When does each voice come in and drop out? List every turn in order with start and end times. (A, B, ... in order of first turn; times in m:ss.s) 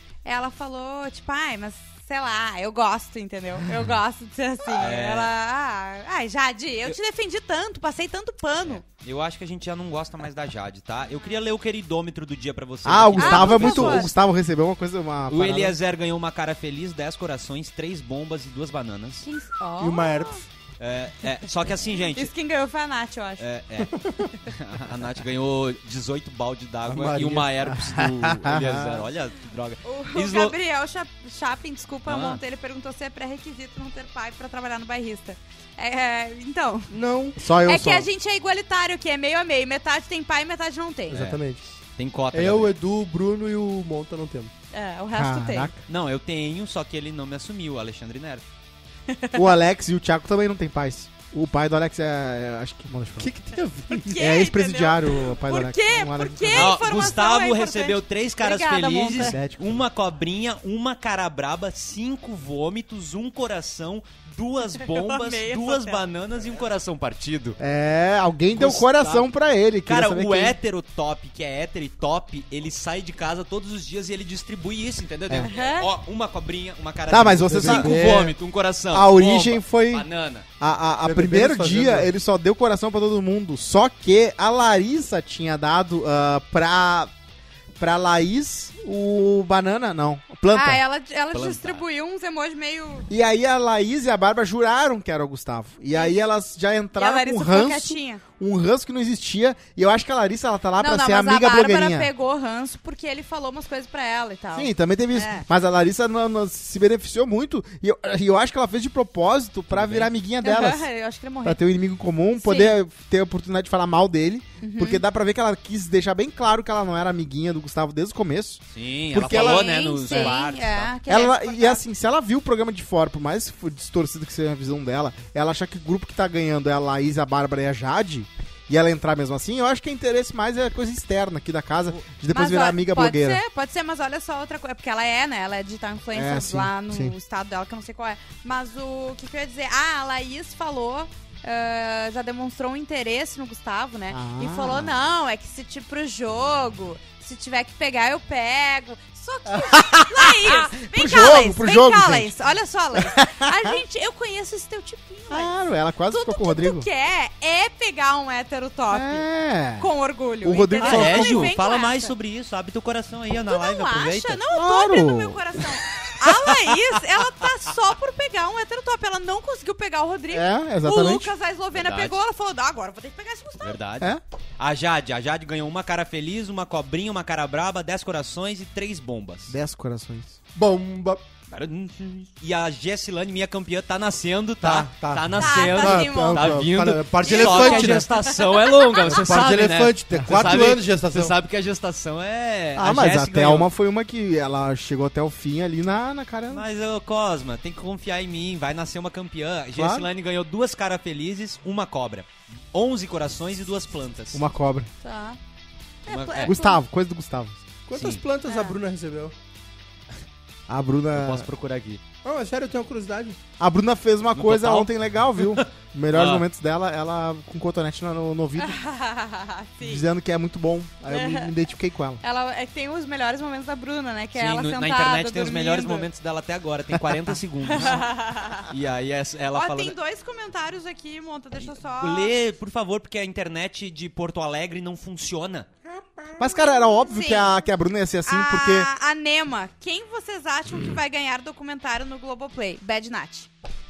0:00.2-0:08.8 A
0:03.6-0:03.9 B
0:04.7-0:05.3 C
0:08.6-0:14.1 C
0:11.1-0:11.4 A
0:12.8-0:15.8 B
0:13.2-0:14.1 A
0:15.3-0:19.2 C
0:19.2-0:20.4 A
0:19.8-0:20.4 D
0:20.8-0:22.3 C
0:22.1-0:23.4 A
0:23.4-0:30.6 C
0:26.8-0:27.5 D
0:27.6-0:29.0 B
0:29.8-0:36.9 A
0:32.0-0:32.4 C
0:36.9-0:37.4 D
0:37.4-0:38.1 B
0:37.6-0:41.2 A
0:41.1-0:41.6 D
0:41.1-0:41.4 C
0:42.0-0:42.7 C
0:42.3-0:44.5 D
0:44.7-0:45.7 A
0:45.1-0:45.8 B
0:45.9-0:48.4 C
0:49.1-0:49.4 A
0:49.3-0:53.3 B
0:53.2-0:54.2 D
0:54.0-0:59.4 A
0:54.2-0:56.8 B
0:56.5-1:07.6 C
0:59.2-0:59.8 B
1:04.8-1:06.0 A
1:07.6-1:10.6 B
1:08.5-1:09.3 C
1:09.8-1:20.4 C
1:15.4-1:15.9 A
1:17.1-1:18.1 B
1:17.4-1:18.4 D
1:18.9-1:20.1 B
1:20.6-1:27.1 B
1:21.0-1:22.1 D
1:27.8-1:30.8 B
1:30.5-1:33.1 A
1:31.3-1:31.8 C
1:33.1-1:42.1 B
1:35.9-1:36.2 A
1:36.9-1:38.2 A
1:40.8-1:45.4 A
1:44.5-1:50.9 B
1:49.7-1:50.1 C
1:50.4-1:51.6 A
1:51.4-2:00.4 B
1:52.4-1:52.8 A
1:54.6-1:55.0 A
1:58.7-2:00.9 C
1:59.2-2:01.8 A
2:01.1-2:13.4 B
2:12.3-2:35.6 A
2:16.1-2:17.1 B
2:24.1-2:24.9 B
2:29.5-2:32.3 B
2:33.0-2:33.8 B
2:35.3-2:36.9 B
2:36.1-2:39.2 A
2:38.9-2:39.9 B
2:39.8-2:42.1 A
2:40.4-2:41.5 B
2:40.8-2:44.4 C
2:43.5-2:53.8 A
2:44.5-2:45.4 B
2:46.4-2:46.7 C
2:50.3-2:51.3 B
2:51.7-2:52.2 C
2:53.6-2:59.6 C
2:59.5-3:00.4 B
3:00.5-3:01.2 D
3:01.5-3:13.7 C
3:04.6-3:08.3 D
3:05.4-3:06.5 A
3:07.2-3:09.0 A
3:09.0-3:11.3 D
3:10.1-3:10.5 B
3:12.8-3:16.6 B
3:16.5-3:24.4 C
3:19.8-3:20.0 D
3:24.3-3:24.9 B
3:25.0-3:25.4 A
3:26.0-3:26.8 A
3:26.1-3:26.5 C
3:26.4-3:27.6 B
3:27.9-3:29.3 D
3:27.9-3:28.2 C
3:28.4-3:28.8 A
3:30.7-3:31.5 B
3:31.1-3:32.0 C
3:32.2-3:33.4 D
3:33.6-3:38.8 B
3:34.3-3:36.4 C
3:38.6-3:40.0 A
3:39.8-3:42.2 B
3:41.1-3:41.5 A
3:42.2-3:46.1 A
3:44.3-3:48.1 C
3:47.7-3:48.7 A
3:48.7-3:50.0 C
3:49.5-3:52.4 A
3:51.6-3:55.7 C
3:56.4-3:58.9 B
3:56.4-3:57.5 A
3:58.2-4:03.5 A